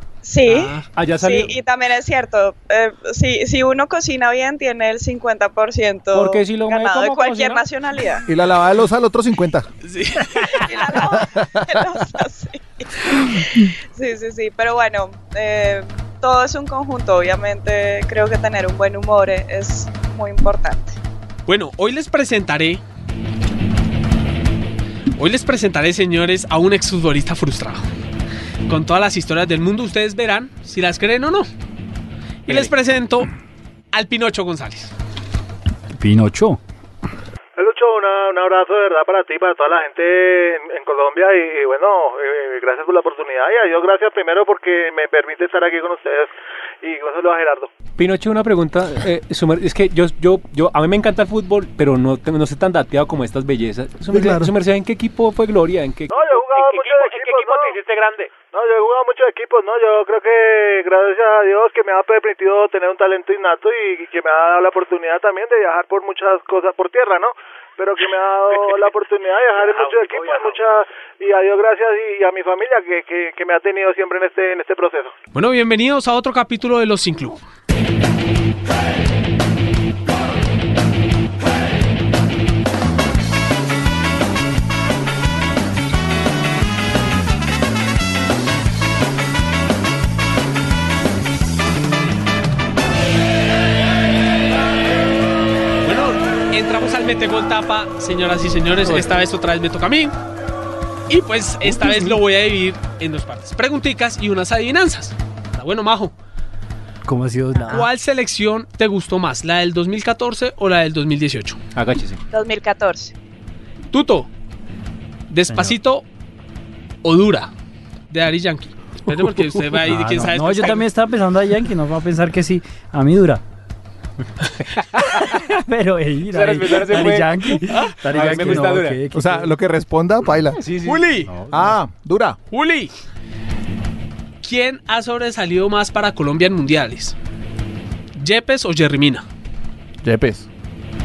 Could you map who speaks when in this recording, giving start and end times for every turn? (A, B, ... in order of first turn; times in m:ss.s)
0:00.2-0:08.2 A
0:00.4-0:00.8 B
0:00.9-0:01.5 C
0:06.1-0:07.6 C
0:08.3-0:09.7 D
0:09.8-0:10.7 B
0:10.4-0:21.0 A
0:11.1-0:11.9 D
0:21.5-0:22.8 B
0:25.2-0:27.8 B
0:28.7-0:31.5 B
0:32.5-0:33.3 B
0:33.9-0:34.9 B
0:35.9-0:36.6 E
0:37.6-0:47.7 F
0:48.0-0:58.3 C
0:54.1-0:54.5 D
0:56.1-0:57.8 F
0:58.4-1:15.1 F
1:09.6-1:10.4 B
1:15.3-1:17.4 B
1:35.8-1:40.1 B
1:41.1-1:46.1 B
1:41.7-1:42.1 E
1:47.0-1:47.9 E
1:47.7-1:51.6 B
1:51.7-1:52.2 C
1:52.3-1:53.1 A
1:53.9-1:54.3 B
1:55.3-1:56.0 B
1:55.5-1:55.8 E
1:57.0-1:57.5 B
1:58.1-2:00.8 B
1:59.8-2:03.4 E
2:05.3-2:09.5 E
2:06.3-2:09.0 C
2:07.7-2:08.0 B
2:09.1-2:10.6 D
2:10.6-2:11.3 C
2:10.8-2:11.3 B
2:11.3-2:11.7 E
2:11.5-2:12.4 D
2:12.5-2:12.9 B
2:14.4-2:17.1 B
2:18.2-2:19.2 B
2:20.0-2:20.5 D